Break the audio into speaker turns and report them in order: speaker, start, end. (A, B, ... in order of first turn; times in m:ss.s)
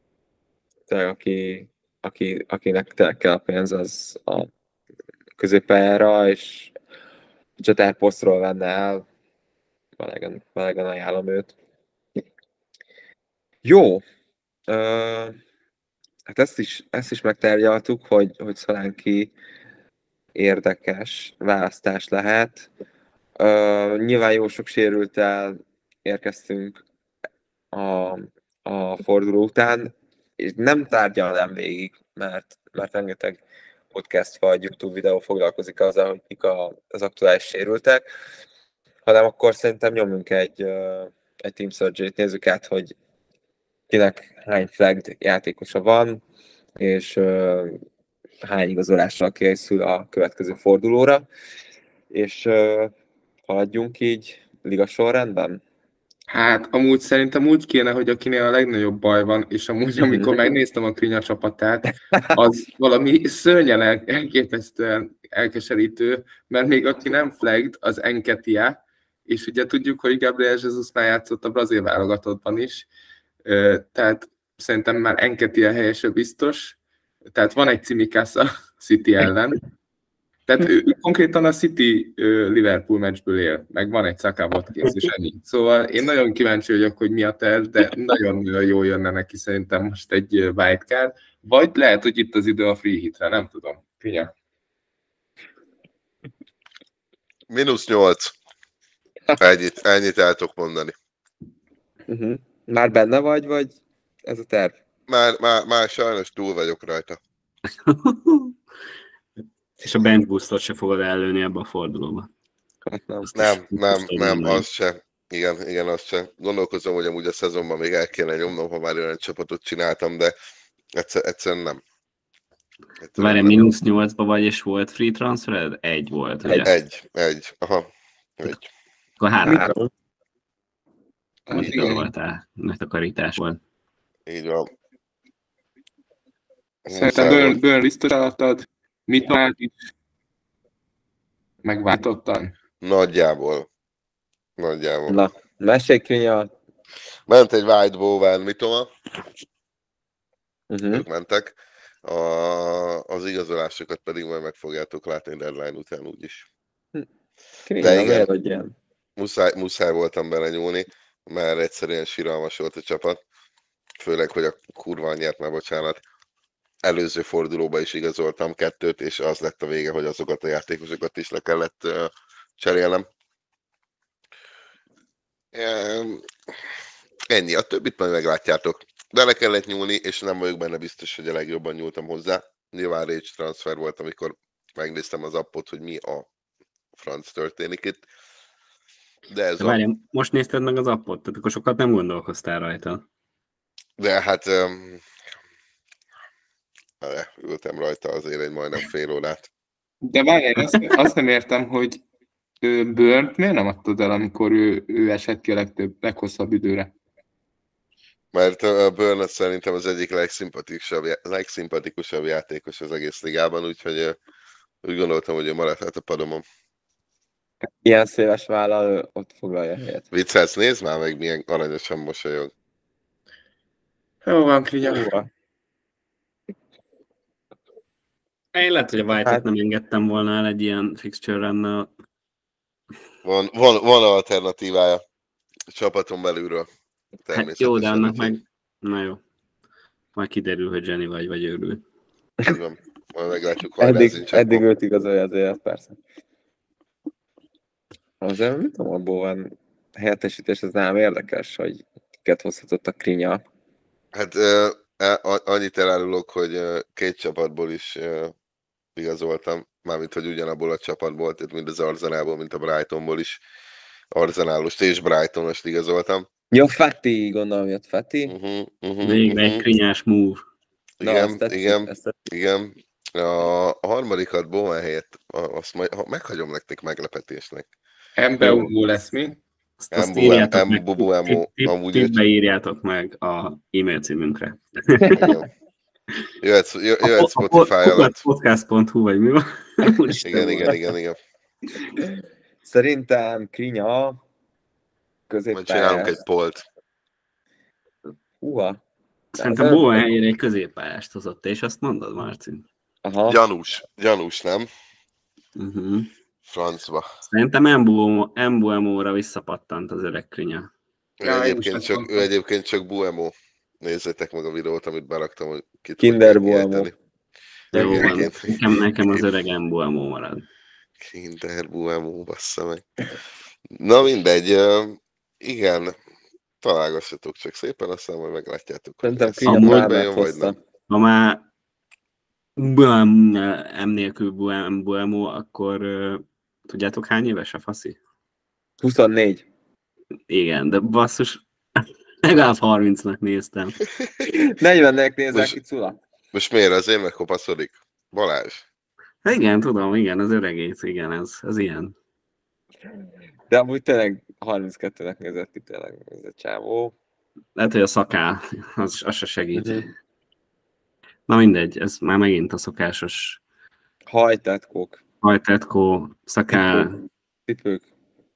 0:00.9-0:04.5 A
0:05.4-0:06.7 A
0:07.6-0:09.0 A
0:10.0-0:11.5 A
0:13.6-0:14.0 A
0:14.7-0:15.4 A
0:16.2-0:19.3 A
0:20.3-0:22.7 A
0:23.4-0:26.8 A
0:27.7-0:38.0 A
0:39.0-0:42.9 A
0:43.9-0:46.2 A
0:46.8-0:47.8 A
0:48.4-0:51.2 A
0:52.1-0:52.9 A
0:53.5-0:55.6 A
0:56.3-1:12.9 B
1:13.4-1:16.8 B
1:17.3-1:19.6 B
1:20.5-1:34.3 B
1:37.5-1:38.3 C
1:39.4-1:40.9 C
1:42.1-1:44.7 A
1:45.1-1:47.2 C
1:47.8-1:48.5 D
1:49.8-1:52.3 D
1:52.8-1:53.3 A
1:53.2-1:54.6 D
1:53.4-2:00.3 C
2:00.9-2:01.8 C
2:03.0-2:03.7 C
2:03.2-2:06.7 D
2:06.6-2:08.7 C
2:09.2-2:09.7 D
2:09.4-2:09.7 B
2:09.4-2:09.9 A
2:11.5-2:12.1 B
2:11.5-2:13.6 D
2:14.2-2:14.7 C
2:16.8-2:17.6 C
2:16.9-2:19.7 B
2:21.6-2:22.5 B
2:22.8-2:23.7 C
2:24.6-2:25.2 C
2:25.1-2:26.5 A
2:27.3-2:28.9 C
2:30.7-2:31.0 A
2:30.9-2:36.4 C
2:37.6-2:38.7 A
2:37.8-2:38.3 C
2:39.2-2:43.2 C
2:44.0-2:46.0 C
2:46.8-2:53.0 C
2:55.5-2:56.7 C
2:57.3-3:06.3 C
3:06.9-3:08.0 C
3:09.3-3:09.8 C
3:09.6-3:13.0 D
3:14.0-3:15.1 C
3:17.0-3:19.5 C
3:20.0-3:22.0 B
3:22.6-3:26.9 B
3:28.3-3:34.2 C
3:34.8-3:36.4 C
3:37.8-3:40.1 A
3:40.1-3:42.5 C
3:44.2-3:45.1 B
3:44.8-3:45.3 A
3:48.5-3:51.9 D
3:49.2-3:49.4 A
3:53.2-3:55.0 C
3:55.7-3:56.7 C
3:57.3-3:58.3 C
3:57.3-3:59.2 D
4:00.1-4:01.8 D
4:02.4-4:04.6 C
4:03.8-4:06.0 A
4:08.2-4:13.4 A
4:14.1-4:18.3 C
4:19.0-4:23.4 C
4:24.1-4:26.2 C
4:26.5-4:28.3 A
4:28.3-4:29.6 C
4:29.0-4:30.4 D
4:31.0-4:37.7 C
4:31.0-4:32.1 A
4:38.2-4:39.4 B
4:39.8-4:45.3 D
4:39.9-4:42.2 C
4:45.1-4:45.5 C
4:46.4-4:48.2 C
4:47.0-4:50.8 D
4:50.2-4:51.2 C
4:52.6-4:54.2 A
4:55.3-4:56.2 A
4:55.5-4:56.6 C
4:58.4-4:58.8 A
4:59.3-5:02.6 D
4:59.4-4:59.8 A
5:03.0-5:03.4 A
5:03.3-5:04.7 C
5:05.6-5:06.1 D
5:06.4-5:07.1 C
5:07.2-5:10.7 D
5:11.2-5:16.9 C
5:11.2-5:12.3 B
5:16.0-5:16.9 A
5:17.7-5:18.3 A
5:17.7-5:20.4 D
5:17.8-5:18.5 C
5:21.0-5:22.9 C
5:23.7-5:25.9 C
5:26.6-5:30.5 C
5:29.0-5:30.6 A
5:29.4-5:29.8 D
5:30.9-5:31.4 D
5:32.6-5:38.0 D
5:38.8-5:39.4 A
5:40.3-5:43.8 D
5:44.3-5:46.0 A
5:46.3-5:48.6 C
5:49.2-5:51.9 D
5:53.5-5:56.9 A
5:57.6-5:59.8 D
5:59.5-5:59.9 A
6:01.3-6:03.4 D
6:04.1-6:05.0 A
6:05.2-6:07.0 D
6:06.5-6:06.9 A
6:07.5-6:07.9 A